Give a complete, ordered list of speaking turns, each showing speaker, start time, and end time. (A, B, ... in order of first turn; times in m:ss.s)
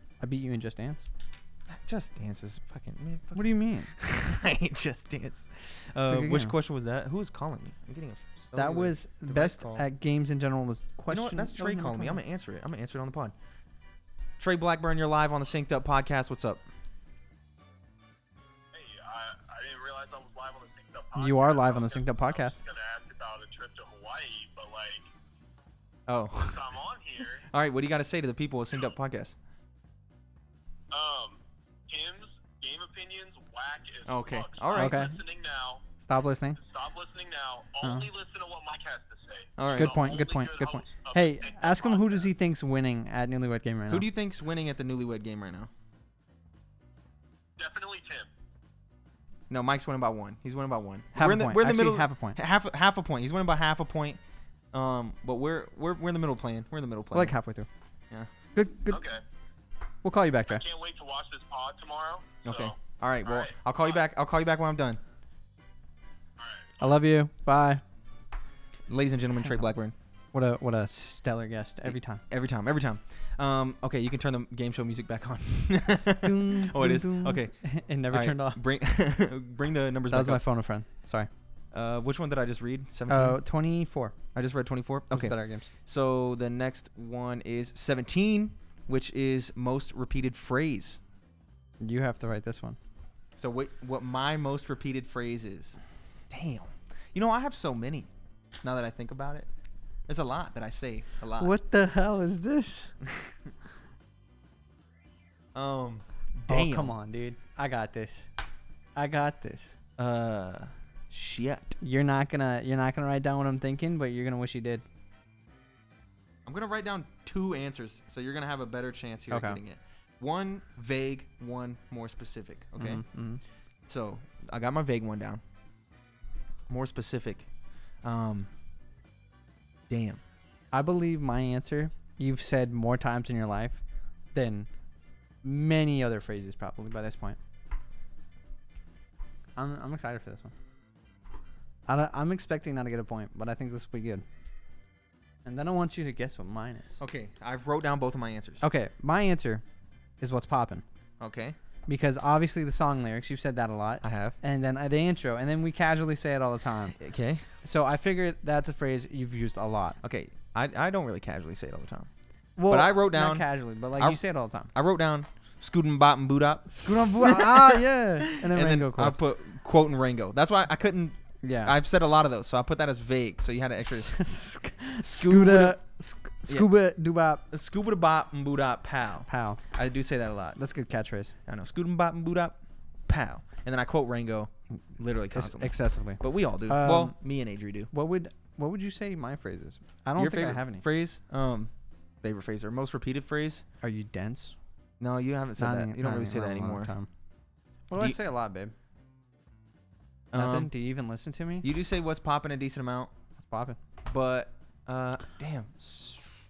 0:00.2-0:01.0 A
0:01.7-0:09.8 B
0:03.4-0:03.9 A
0:06.1-0:06.5 A
0:08.5-0:12.2 A
0:11.1-0:13.3 B
0:14.4-0:16.6 B
0:18.7-0:25.1 C
0:21.2-0:22.6 A
0:26.1-0:26.7 B
0:26.4-0:27.5 C
0:27.4-0:29.4 B
0:30.9-0:31.4 C
0:31.9-0:35.8 C
0:34.1-0:35.1 B
0:34.7-0:35.2 A
0:36.0-0:36.6 A
0:36.6-0:42.3 C
0:37.8-0:38.1 A
0:39.6-0:40.0 B
0:39.8-0:44.1 A
0:43.9-0:45.7 B
0:47.6-0:48.3 C
0:49.5-0:54.2 B
0:51.2-0:52.4 A
0:54.7-0:57.3 B
0:57.1-0:57.7 A
0:58.6-0:59.0 A
0:58.9-0:59.2 C
1:00.0-1:00.6 A
1:00.5-1:04.0 C
1:02.4-1:05.0 B
1:06.4-1:06.8 C
1:06.8-1:07.8 A
1:08.9-1:09.9 B
1:10.3-1:12.2 A
1:11.9-1:17.6 B
1:16.2-1:18.6 A
1:18.1-1:20.4 B
1:20.1-1:21.3 A
1:21.7-1:23.4 B
1:23.1-1:24.2 A
1:24.4-1:31.0 B
1:25.1-1:25.7 A
1:31.8-1:32.8 A
1:33.4-1:35.8 B
1:36.3-1:38.1 B
1:38.6-1:39.5 B
1:40.1-1:41.5 B
1:41.4-1:42.9 A
1:45.5-1:47.0 B
1:46.5-1:48.3 A
1:49.0-1:49.8 A
1:50.0-1:51.8 B
1:51.8-1:54.8 A
1:56.5-2:03.0 B
1:59.3-1:59.6 A
2:02.8-2:03.4 A
2:03.9-2:05.4 B
2:06.7-2:07.5 B
2:08.0-2:08.5 B
2:09.9-2:10.2 B
2:10.7-2:13.8 A
2:14.3-2:14.7 A
2:15.4-2:17.4 A
2:19.6-2:20.5 A
2:21.9-2:24.2 A
2:25.4-2:27.0 A
2:27.0-2:28.6 B
2:28.6-2:29.6 A
2:30.2-2:30.8 A
2:31.2-2:31.6 B
2:31.9-2:37.0 A
2:34.0-2:34.4 B
2:37.0-2:37.5 B
2:37.6-2:40.0 A
2:40.0-2:42.1 B
2:42.6-2:44.7 A
2:42.7-2:44.2 B
2:44.7-2:54.2 B
2:46.7-2:49.2 A
2:51.4-2:51.8 A
2:53.8-2:57.4 A
2:55.0-2:55.8 B
2:57.5-3:00.6 B
2:59.3-2:59.6 A
3:00.6-3:01.4 A
3:01.5-3:07.9 B
3:05.3-3:07.2 A
3:07.9-3:10.8 A
3:10.2-3:11.7 B
3:12.2-3:13.6 B
3:13.8-3:14.6 A
3:15.0-3:16.9 B
3:15.6-3:17.1 A
3:17.9-3:18.7 A
3:20.3-3:20.7 B
3:20.3-3:21.7 A
3:21.6-3:23.1 B
3:23.4-3:23.8 A
3:24.0-3:25.7 B
3:25.8-3:26.2 A